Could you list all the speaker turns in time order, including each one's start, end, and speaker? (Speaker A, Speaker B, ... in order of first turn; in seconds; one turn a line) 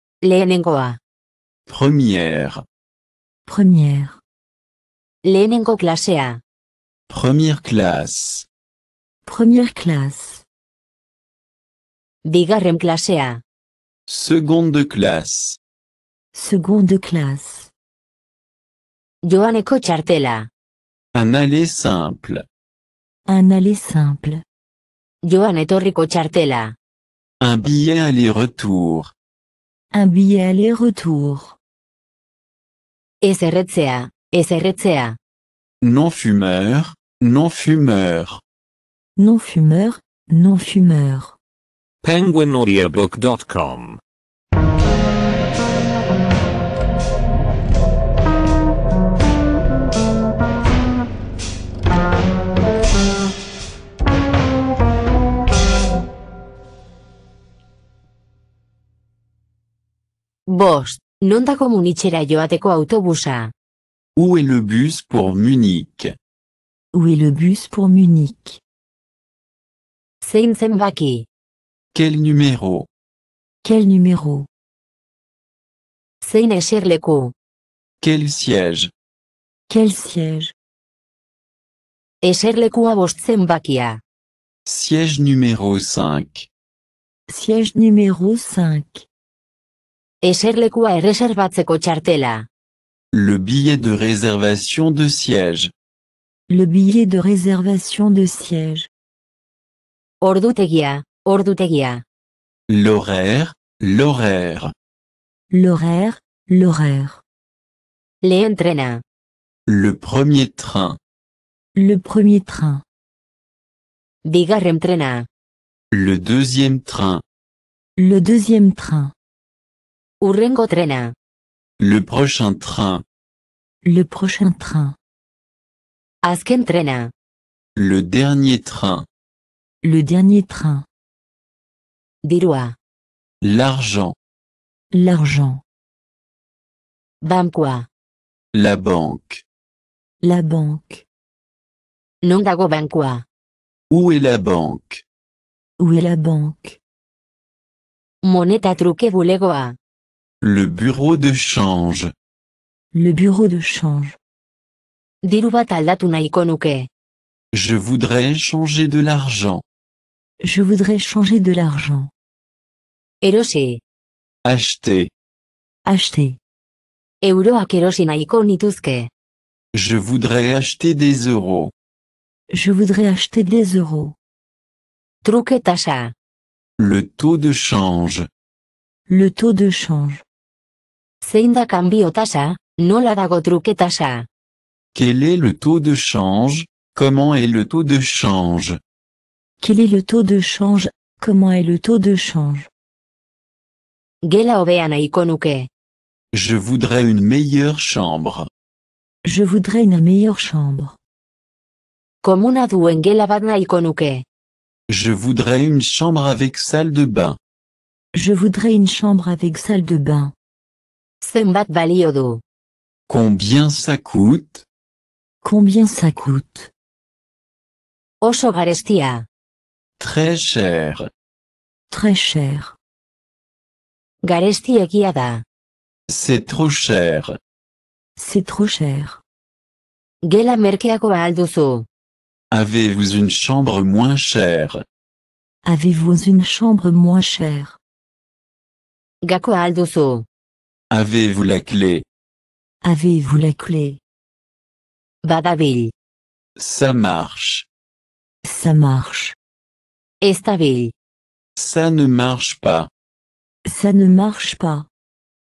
Speaker A: 0.2-1.0
Speaker B: 1.7-2.6
Speaker C: 3.5-4.2
Speaker A: 5.2-6.4
Speaker B: 7.1-8.5
Speaker C: 9.2-10.4
Speaker A: 12.2-13.4
Speaker B: 14.1-15.6
Speaker C: 16.3-17.7
Speaker A: 19.2-20.5
Speaker B: 21.1-22.4
Speaker C: 23.3-24.4
Speaker A: 25.2-26.8
Speaker B: 27.4-29.1
Speaker C: 29.9-31.6
Speaker A: 33.2-35.2
Speaker B: 35.8-38.4
Speaker C: 39.2-41.4
Speaker D: 42.0-44.0
Speaker A: 60.5-63.5
Speaker B: 64.2-66.2
Speaker C: 66.9-68.6
Speaker A: 70.2-71.3
Speaker B: 71.9-72.9
Speaker C: 73.6-74.5
Speaker A: 76.2-77.3
Speaker B: 78.0-78.9
Speaker C: 79.7-80.5
Speaker A: 82.2-84.0
Speaker B: 84.7-86.5
Speaker C: 87.3-89.1
Speaker A: 90.2-92.5
Speaker B: 93.1-95.7
Speaker C: 96.5-98.9
Speaker A: 100.2-102.0
Speaker B: 102.7-104.7
Speaker C: 105.5-107.2
Speaker A: 108.2-109.0
Speaker B: 109.7-111.0
Speaker C: 111.8-112.8
Speaker A: 114.3-115.3
Speaker B: 115.9-117.2
Speaker C: 118.0-119.1
Speaker A: 120.2-121.1
Speaker B: 121.8-123.0
Speaker C: 123.8-125.0
Speaker A: 126.2-127.1
Speaker B: 127.8-129.1
Speaker C: 129.8-130.9
Speaker A: 132.2-132.8
Speaker B: 133.4-134.2
Speaker C: 134.9-135.6
Speaker A: 137.2-137.9
Speaker B: 138.5-139.4
Speaker C: 140.2-141.0
Speaker A: 142.2-143.2
Speaker B: 143.9-145.0
Speaker C: 145.8-146.8
Speaker A: 148.2-149.8
Speaker B: 150.4-152.1
Speaker C: 152.9-154.2
Speaker A: 155.2-156.9
Speaker B: 157.5-159.6
Speaker C: 160.4-162.1
Speaker A: 163.2-163.8
Speaker B: 164.4-165.1
Speaker C: 165.9-166.4
Speaker A: 167.2-169.1
Speaker B: 169.7-171.7
Speaker C: 172.5-174.2
Speaker A: 175.2-176.1
Speaker B: 176.8-178.3
Speaker C: 179.1-180.2
Speaker A: 181.2-184.3
Speaker B: 184.9-188.8
Speaker C: 189.6-192.7
Speaker A: 194.2-195.7
Speaker B: 196.3-198.5
Speaker C: 199.2-201.0
Speaker A: 202.2-204.2
Speaker B: 204.9-207.4
Speaker C: 208.1-210.3
Speaker A: 211.2-212.4
Speaker B: 213.1-214.7
Speaker C: 215.4-216.7
Speaker A: 218.2-219.3
Speaker B: 220.0-221.1
Speaker C: 221.9-222.8
Speaker A: 224.2-225.4
Speaker B: 226.1-227.4
Speaker C: 228.2-229.2
Speaker A: 230.2-231.9
Speaker B: 232.5-234.8
Speaker C: 235.7-237.8
Speaker A: 239.2-240.3
Speaker B: 240.9-242.1
Speaker C: 242.8-244.0
Speaker A: 245.2-245.9
Speaker B: 246.6-247.7
Speaker C: 248.4-249.4
Speaker A: 250.2-250.9
Speaker B: 251.6-252.9
Speaker C: 253.7-254.9